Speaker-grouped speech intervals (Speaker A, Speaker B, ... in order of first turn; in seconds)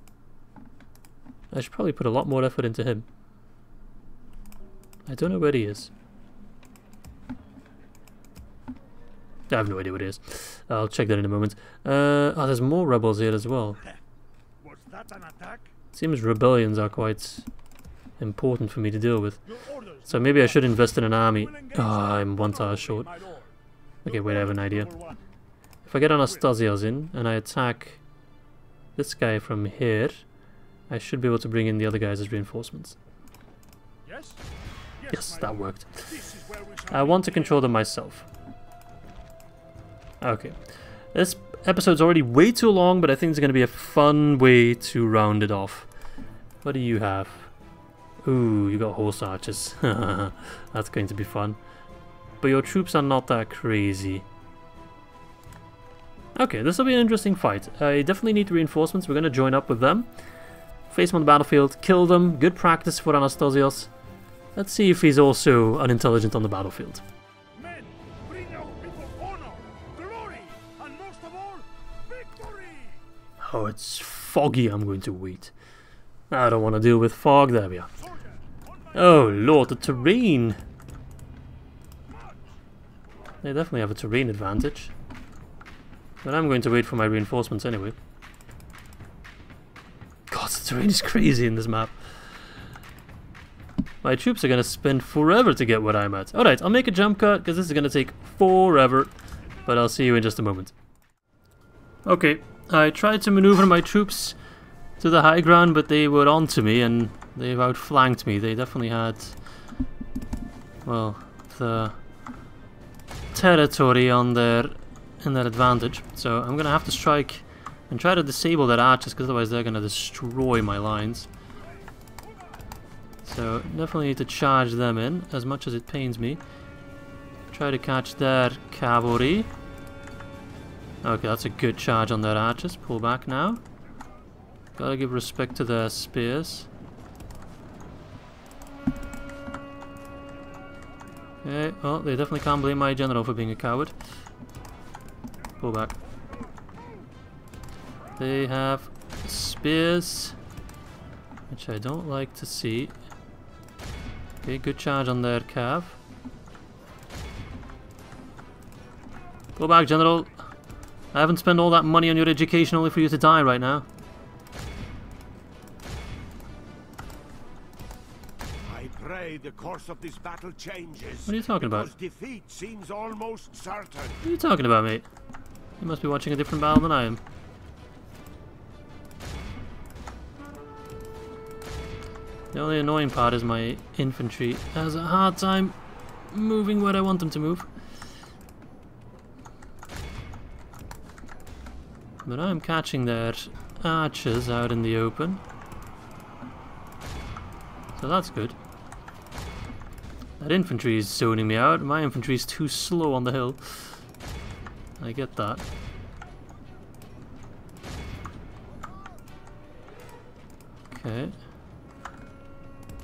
Speaker A: 1.5-3.1, 5.1-5.9, 9.5-13.8, 15.9-17.5, 18.2-19.4, 20.1-23.1, 24.1-24.9, 25.9-28.0, 29.0-30.2, 30.9-33.0, 35.1-36.1, 36.9-38.3, 40.2-40.6, 41.1-45.9, 46.6-47.5, 48.2-51.6, 52.4-54.3, 56.4-60.1, 60.9-63.9, 64.5-67.0, 73.4-75.5, 76.3-77.9, 78.9-80.6, 83.4-84.9, 86.2-88.0, 90.3-92.1, 94.0-99.1, 99.7-100.7, 102.0-104.4, 105.0-109.4, 110.8-112.0, 113.3-121.3, 123.2-126.4, 127.5-129.5, 131.0-133.6, 134.8-136.7, 141.4-144.0, 145.6-146.0, 148.2-150.4, 151.5-152.9, 154.4-156.0, 159.6-160.4, 161.1-163.9, 171.3-171.9, 174.2-175.1, 175.8-177.2, 182.5-185.8, 186.3-187.7, 192.2-195.4, 198.0-198.6, 200.4-204.0, 205.0-205.7, 210.9-211.4
Speaker B: 14.6-15.7, 19.5-25.2, 34.0-34.4, 35.0-37.7, 67.5-73.0, 78.0-80.0, 82.1-82.4
Speaker C: 168.6-174.2